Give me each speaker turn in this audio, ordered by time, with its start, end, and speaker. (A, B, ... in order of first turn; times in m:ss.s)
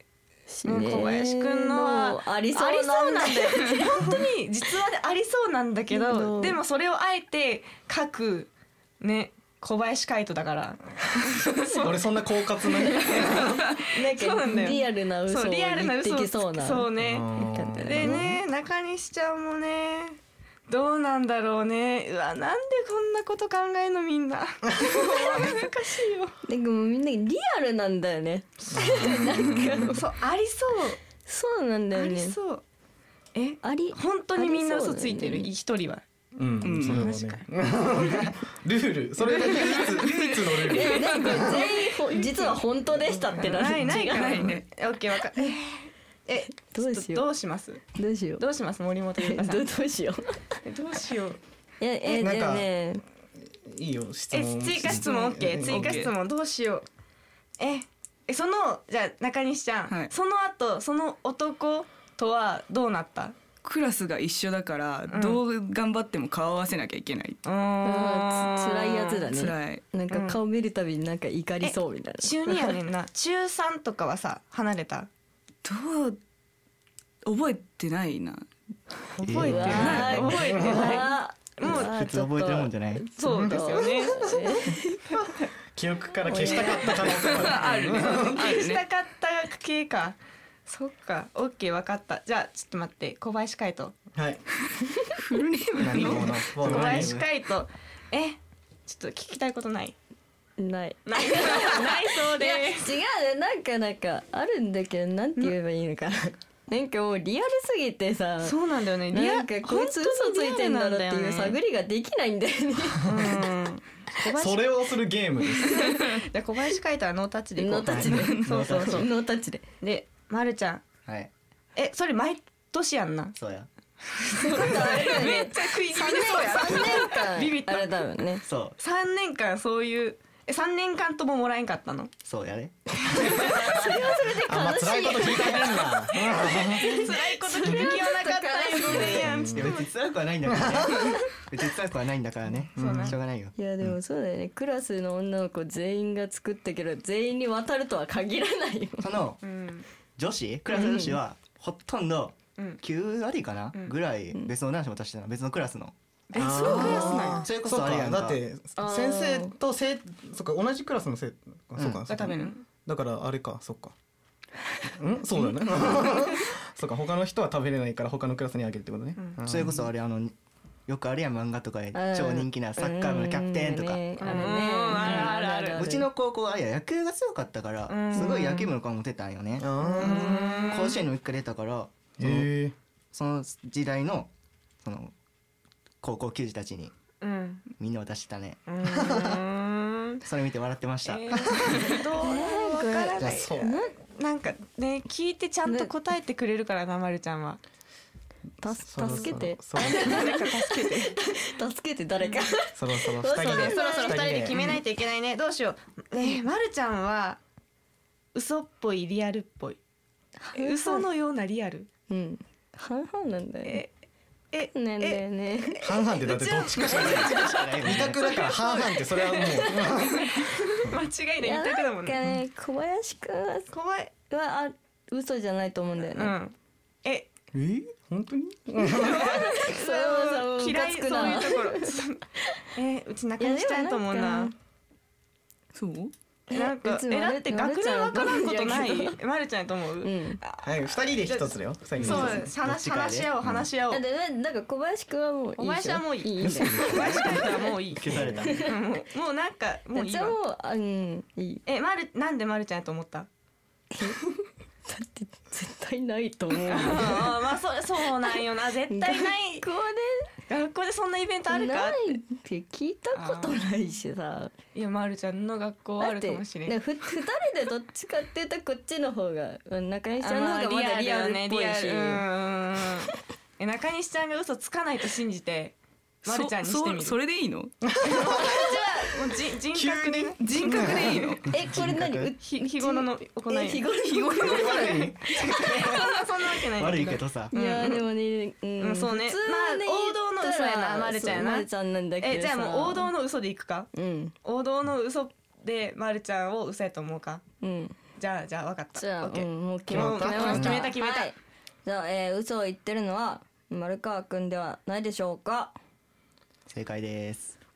0:00.5-0:04.2 A
0:00.6-0:12.1 B
0:05.9-0:06.6 A
0:11.8-0:13.6 C
0:12.7-0:26.4 B
0:12.9-0:13.4 A
0:13.9-0:18.3 A
0:17.0-0:18.3 C
0:26.5-0:30.0 A
0:28.6-0:31.0 B
0:28.7-0:29.9 C
0:31.3-0:32.4 A
0:31.9-0:32.6 B
0:33.4-0:36.0 B
0:33.6-0:35.5 A
0:36.4-0:41.4 C
0:36.6-0:37.1 D
0:36.8-0:37.4 B
0:39.4-0:41.6 D
0:39.4-0:39.8 B
0:40.8-0:44.6 A
0:40.8-0:42.6 B
0:43.4-0:47.8 B
0:43.9-0:44.6 D
0:46.7-0:47.3 A
0:48.0-0:48.4 A
0:48.4-0:49.6 B
0:49.2-0:50.4 A
0:50.6-0:51.4 B
0:51.8-0:53.0 A
0:52.1-0:52.7 C
0:53.6-0:56.1 C
0:54.3-0:56.9 B
0:55.6-0:56.1 D
0:57.6-1:03.4 B
1:03.6-1:07.4 D
1:05.1-1:05.4 B
1:07.4-1:09.3 B
1:07.8-1:12.8 A
1:09.3-1:09.8 D
1:10.1-1:10.4 B
1:11.6-1:15.1 B
1:15.6-1:16.2 D
1:17.2-1:18.5 D
1:19.2-1:22.0 B
1:19.2-1:20.1 E
1:19.4-1:25.3 A
1:19.6-1:20.4 D
1:21.7-1:23.1 E
1:23.2-1:24.7 B
1:25.7-1:28.5 C
1:26.3-1:27.3 A
1:26.4-1:26.9 B
1:27.3-1:28.8 D
1:28.0-1:30.2 B
1:30.7-1:34.0 B
1:34.1-1:34.4 C
1:35.2-1:36.5 D
1:35.8-1:37.2 C
1:36.0-1:40.0 B
1:36.6-1:37.3 E
1:40.6-1:48.6 A
1:41.1-1:42.9 B
1:48.4-1:51.6 B
1:49.1-1:53.4 A
1:53.0-1:54.8 B
1:54.3-1:55.8 C
1:55.6-1:59.1 B
1:57.6-1:59.6 A
1:57.9-1:59.1 E
1:59.8-2:00.8 B
2:01.1-2:01.3 E
2:01.8-2:03.4 B
2:03.4-2:03.7 E
2:04.3-2:08.0 B
2:04.4-2:08.4 A
2:08.4-2:08.8 E
2:08.8-2:12.1 B
2:12.2-2:13.2 E
2:13.1-2:13.9 B
2:13.2-2:19.4 A
2:14.4-2:17.0 C
2:15.2-2:19.9 B
2:19.1-2:19.7 C
2:19.5-2:23.9 E
2:20.5-2:21.0 C
2:22.8-2:23.2 C
2:22.8-2:23.2 B
2:23.6-2:29.2 A
2:29.0-2:29.4 E
2:29.4-2:29.9 B
2:30.2-2:35.9 E
2:30.7-2:31.2 A
2:36.3-2:37.5 B
2:36.4-2:43.9 C
2:36.8-2:37.1 D
2:37.4-2:38.4 E
2:38.8-2:39.5 A
2:42.1-2:42.6 B
2:45.0-2:49.9 C
2:49.4-2:50.3 E
2:50.9-2:54.0 E
2:51.9-2:56.1 A
2:54.2-2:55.9 B
2:55.0-2:59.7 E
2:57.9-2:58.7 B
2:59.6-3:00.7 C
2:59.8-3:01.0 B
3:00.7-3:02.5 E
3:02.2-3:02.7 C
3:03.1-3:04.3 E
3:04.8-3:05.1 E
3:06.0-3:06.9 E
3:07.2-3:07.6 B
3:07.8-3:08.6 E
3:08.7-3:10.2 B
3:08.8-3:09.4 C
3:10.2-3:11.8 E
3:11.0-3:13.6 B
3:12.1-3:13.9 A
3:13.2-3:13.8 C
3:14.2-3:17.6 B
3:15.7-3:15.9 A
3:18.6-3:24.6 A
3:18.8-3:20.3 C
3:19.1-3:21.2 B
3:22.2-3:22.4 B
3:22.8-3:24.8 C
3:23.4-3:27.4 B
3:28.3-3:29.8 B
3:30.4-3:31.1 A
3:30.5-3:31.9 B
3:32.1-3:33.8 A
3:33.6-3:33.9 B
3:34.5-3:42.3 B
3:34.7-3:35.8 A
3:35.8-3:40.3 C
3:36.9-3:38.2 E
3:41.4-3:43.7 A
3:43.7-3:44.1 B
3:44.3-3:46.4 A
3:46.1-3:47.3 B
3:47.5-3:49.3 C
3:48.8-3:52.2 B
3:48.9-3:52.0 A
3:52.7-3:54.5 B
3:53.4-3:54.5 A
3:55.8-3:56.1 D
3:56.5-3:59.2 A
3:56.5-4:04.0 B
4:00.0-4:00.4 A
4:00.6-4:02.5 C
4:02.0-4:03.7 E
4:03.9-4:07.6 A
4:05.6-4:10.4 B
4:06.4-4:08.7 E
4:08.1-4:08.7 A
4:10.0-4:11.6 A
4:11.7-4:13.3 B
4:13.9-4:17.4 A
4:16.6-4:19.7 B
4:18.9-4:20.3 A
4:20.5-4:22.2 B
4:21.5-4:24.5 A
4:23.1-4:23.6 B
4:24.8-4:26.8 B
4:26.0-4:32.2 A
4:30.2-4:37.2 B
4:36.2-4:37.7 D
4:37.8-4:38.8 C
4:38.0-4:41.4 B
4:39.7-4:41.3 C
4:40.4-4:41.4 D
4:41.5-4:46.0 A
4:41.6-4:42.3 E
4:42.4-4:48.1 B
4:44.5-4:45.9 E
4:46.8-4:47.5 E
4:47.5-4:53.1 A
4:48.8-4:51.7 B
4:52.2-4:53.9 B
4:53.9-4:54.4 A
4:54.4-4:57.4 B
4:57.6-4:58.0 A
4:58.2-5:01.3 B
4:59.0-5:05.7 A
4:59.9-5:00.8 C
5:00.5-5:00.9 E
5:06.7-5:07.6 E